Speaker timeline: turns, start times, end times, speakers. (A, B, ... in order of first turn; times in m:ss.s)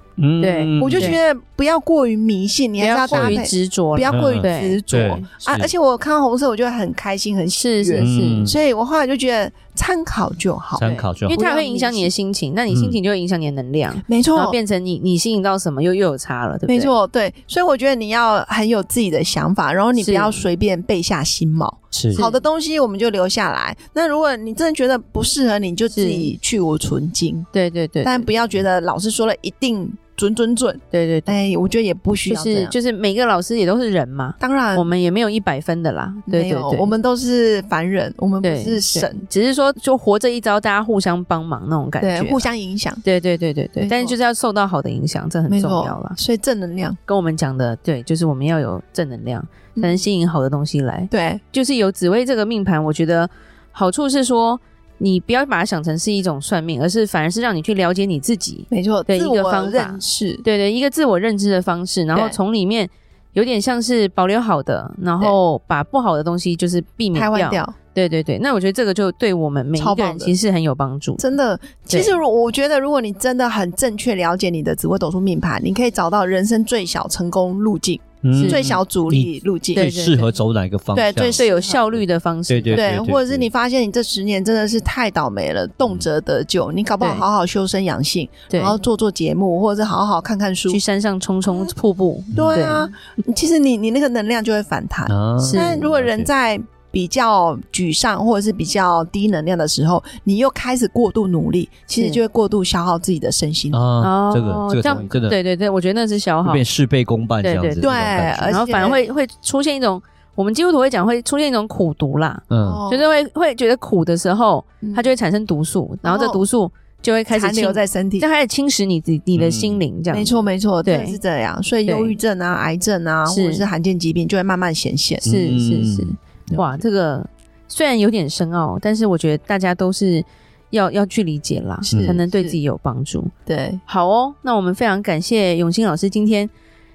0:00.2-0:01.1 A
0:00.4-0:01.2 B
0:00.8-0:12.1 C
0:02.8-0:05.3 B
0:03.1-0:03.4 A
0:04.1-0:05.7 A
0:07.5-0:08.5 B
0:08.0-0:08.6 A
0:10.8-0:11.4 A
0:10.8-0:16.9 B
0:12.7-0:13.0 A
0:14.0-0:14.6 C
0:16.7-0:27.5 C
0:20.0-0:20.4 B
0:21.9-0:22.2 A
0:25.9-0:26.3 B
0:27.5-0:28.3 B
0:28.0-0:32.7 C
0:30.9-0:31.4 B
0:32.3-0:36.9 B
0:34.4-0:34.8 C
0:36.3-0:39.2 C
0:38.4-0:42.5 B
0:42.0-0:43.0 C
0:43.0-0:46.2 B
0:43.8-0:44.1 C
0:45.5-0:47.0 C
0:47.1-1:11.2 B
0:49.8-0:50.0 C
0:51.1-0:51.4 C
0:58.7-1:00.4 C
1:07.1-1:07.7 C
1:09.7-1:10.3 C
1:11.2-1:19.9 C
1:11.9-1:12.2 B
1:18.2-1:21.4 A
1:18.3-1:18.7 B
1:19.7-1:20.3 B
1:20.9-1:21.8 C
1:21.3-1:22.8 B
1:22.5-1:23.5 A
1:22.7-1:30.8 C
1:28.5-1:28.8 B
1:30.7-1:33.0 B
1:31.4-1:31.7 C
1:32.3-1:32.6 A
1:32.3-1:43.8 C
1:35.1-1:36.3 A
1:35.4-1:35.9 B
1:41.9-1:42.2 B
1:43.7-1:45.4 A
1:44.0-1:46.6 B
1:46.4-1:48.5 A
1:47.4-1:47.9 B
1:47.8-1:49.1 C
1:48.5-2:01.2 B
1:52.5-1:52.8 A
1:52.6-1:53.0 C
1:54.8-1:55.1 C
1:56.0-1:56.4 C
1:57.3-1:58.3 C
1:59.3-1:59.8 A
2:00.1-2:05.2 C
2:01.9-2:02.2 B
2:03.2-2:03.7 B
2:05.2-2:06.1 A
2:05.2-2:13.3 B
2:06.5-2:06.8 C
2:11.8-2:12.6 C
2:11.9-2:12.2 A
2:13.5-2:13.8 C
2:13.9-2:16.5 B